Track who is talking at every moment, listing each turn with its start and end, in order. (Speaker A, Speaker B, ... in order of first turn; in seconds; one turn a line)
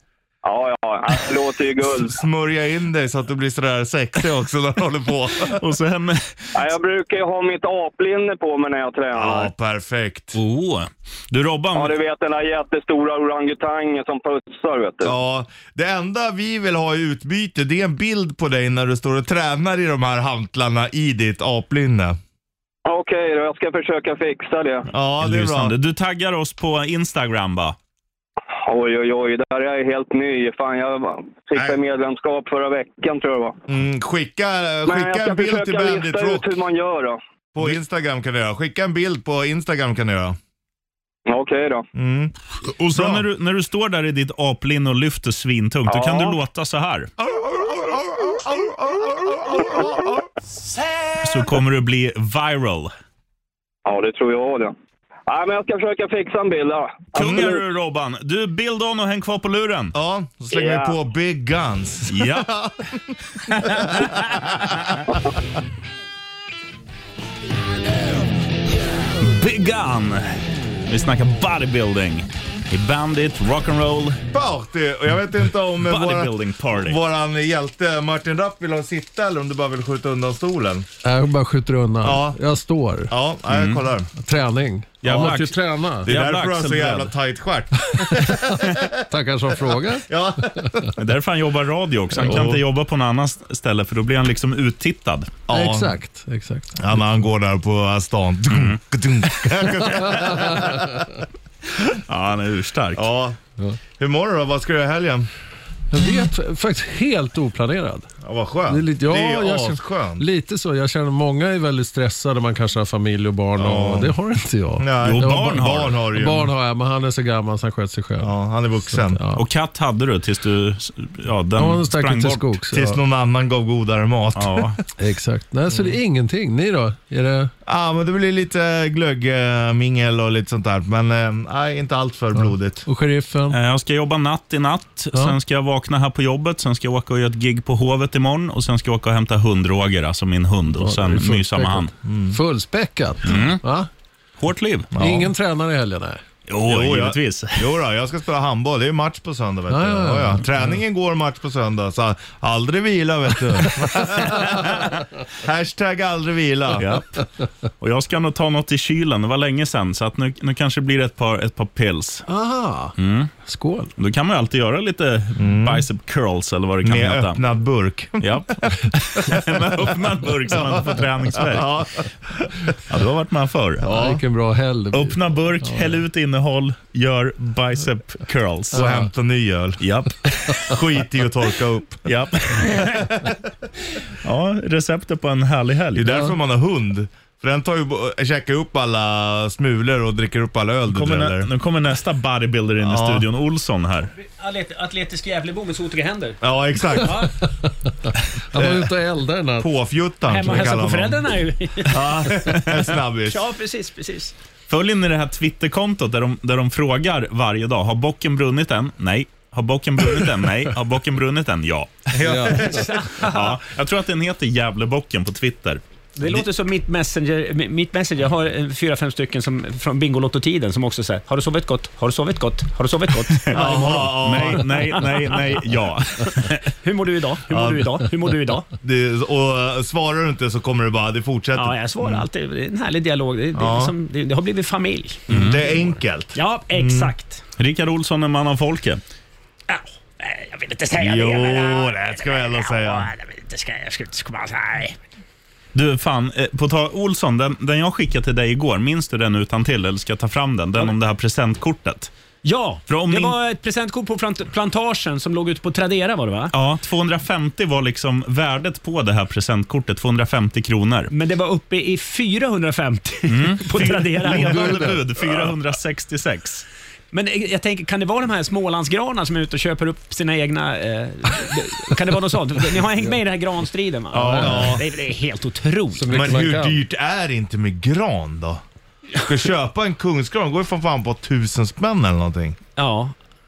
Speaker A: 0.4-2.2
Speaker B: 2.0-5.6
Speaker C: 5.4-6.6
Speaker A: 6.5-9.5
Speaker B: 9.1-10.4
Speaker C: 10.3-11.9
Speaker A: 11.7-15.1
Speaker B: 15.0-22.2
Speaker A: 22.9-24.8
Speaker B: 24.9-25.7
Speaker C: 25.2-27.8
Speaker A: 28.6-33.6
Speaker B: 33.7-36.4
Speaker A: 34.9-37.2
Speaker B: 37.5-40.4
Speaker A: 41.3-41.8
Speaker B: 41.9-42.3
Speaker C: 42.8-47.1
Speaker B: 42.9-43.2
Speaker A: 45.9-46.4
Speaker B: 47.2-50.2
Speaker C: 51.2-52.9
Speaker A: 53.9-54.7
Speaker A: 55.3-57.6
Speaker C: 57.1-59.9
Speaker B: 59.9-62.7
Speaker A: 60.5-60.9
Speaker C: 62.1-62.5
Speaker C: 63.5-65.0
Speaker B: 63.5-64.8
Speaker C: 69.2-74.2
Speaker B: 74.3-80.8
Speaker C: 75.8-77.0
Speaker D: 81.0-83.1
Speaker B: 82.0-82.4
Speaker B: 83.1-84.1
Speaker C: 83.5-83.8
Speaker D: 84.2-86.1
Speaker C: 85.0-87.1
Speaker B: 86.0-89.0
Speaker D: 89.1-90.1
Speaker B: 90.1-90.9
Speaker C: 91.0-95.3
Speaker B: 92.2-92.6
Speaker B: 95.5-95.9
Speaker D: 95.5-97.0
Speaker B: 96.8-100.9
Speaker C: 98.5-98.8
Speaker D: 100.1-100.7
Speaker C: 102.1-103.0
Speaker B: 102.9-103.4
Speaker B: 104.0-105.3
Speaker D: 105.9-108.1
Speaker B: 108.2-110.2
Speaker D: 108.7-118.3
Speaker B: 113.6-114.1
Speaker B: 114.8-116.5
Speaker C: 115.0-116.0
Speaker B: 118.2-119.2
Speaker D: 118.9-119.4
Speaker C: 119.3-122.6
Speaker D: 121.5-123.0
Speaker B: 122.7-124.7
Speaker C: 124.3-124.8
Speaker D: 125.0-127.5
Speaker B: 127.7-132.8
Speaker D: 132.5-133.6
Speaker C: 133.5-141.9
Speaker D: 140.7-143.9
Speaker B: 142.0-142.4
Speaker C: 143.2-143.6
Speaker C: 144.4-144.9
Speaker B: 144.9-145.3
Speaker D: 145.0-146.2
Speaker C: 146.5-147.7
Speaker B: 146.7-154.8
Speaker D: 149.7-150.8
Speaker C: 154.3-155.0
Speaker B: 155.4-156.9
Speaker C: 156.8-157.1
Speaker C: 157.8-162.3
Speaker D: 162.3-163.9
Speaker C: 163.0-163.3
Speaker C: 164.0-167.4
Speaker B: 165.4-165.8
Speaker B: 166.8-169.6
Speaker C: 168.2-171.7
Speaker B: 170.5-172.7
Speaker C: 172.9-173.9
Speaker D: 173.8-176.0
Speaker B: 173.9-174.2
Speaker C: 174.9-178.8
Speaker B: 178.7-179.8
Speaker D: 178.8-179.1
Speaker C: 179.8-180.7
Speaker B: 180.7-182.1
Speaker C: 182.0-183.1
Speaker B: 182.6-183.3
Speaker C: 184.1-186.1
Speaker B: 185.9-191.5
Speaker C: 190.9-194.1
Speaker B: 192.8-193.2
Speaker E: 194.2-196.4
Speaker B: 196.4-197.3
Speaker E: 197.0-197.3
Speaker D: 198.5-199.7
Speaker B: 198.5-198.8
Speaker B: 199.6-201.2
Speaker E: 200.2-202.5
Speaker B: 201.9-203.4
Speaker E: 203.2-204.3
Speaker C: 204.7-212.1
Speaker B: 212.1-212.9
Speaker D: 212.2-212.8
Speaker E: 212.7-213.6
Speaker C: 213.2-216.5
Speaker E: 216.2-225.5
Speaker C: 223.4-226.7
Speaker B: 223.5-224.7
Speaker E: 226.8-228.7
Speaker B: 227.5-227.8
Speaker B: 228.8-232.2
Speaker E: 231.5-235.8
Speaker B: 233.6-233.9
Speaker B: 235.3-237.1
Speaker C: 235.3-235.6
Speaker E: 236.3-237.4
Speaker C: 237.6-239.0
Speaker E: 239.7-245.0
Speaker B: 241.0-243.1
Speaker C: 245.7-252.1
Speaker E: 252.4-256.5
Speaker C: 252.9-253.4
Speaker C: 256.5-261.1
Speaker E: 261.1-265.0
Speaker C: 263.3-266.6
Speaker D: 264.4-264.9
Speaker E: 267.1-276.1
Speaker B: 274.1-274.8
Speaker D: 274.2-274.8
Speaker D: 275.9-276.8
Speaker B: 276.1-278.6
Speaker B: 279.1-282.6
Speaker E: 282.8-283.1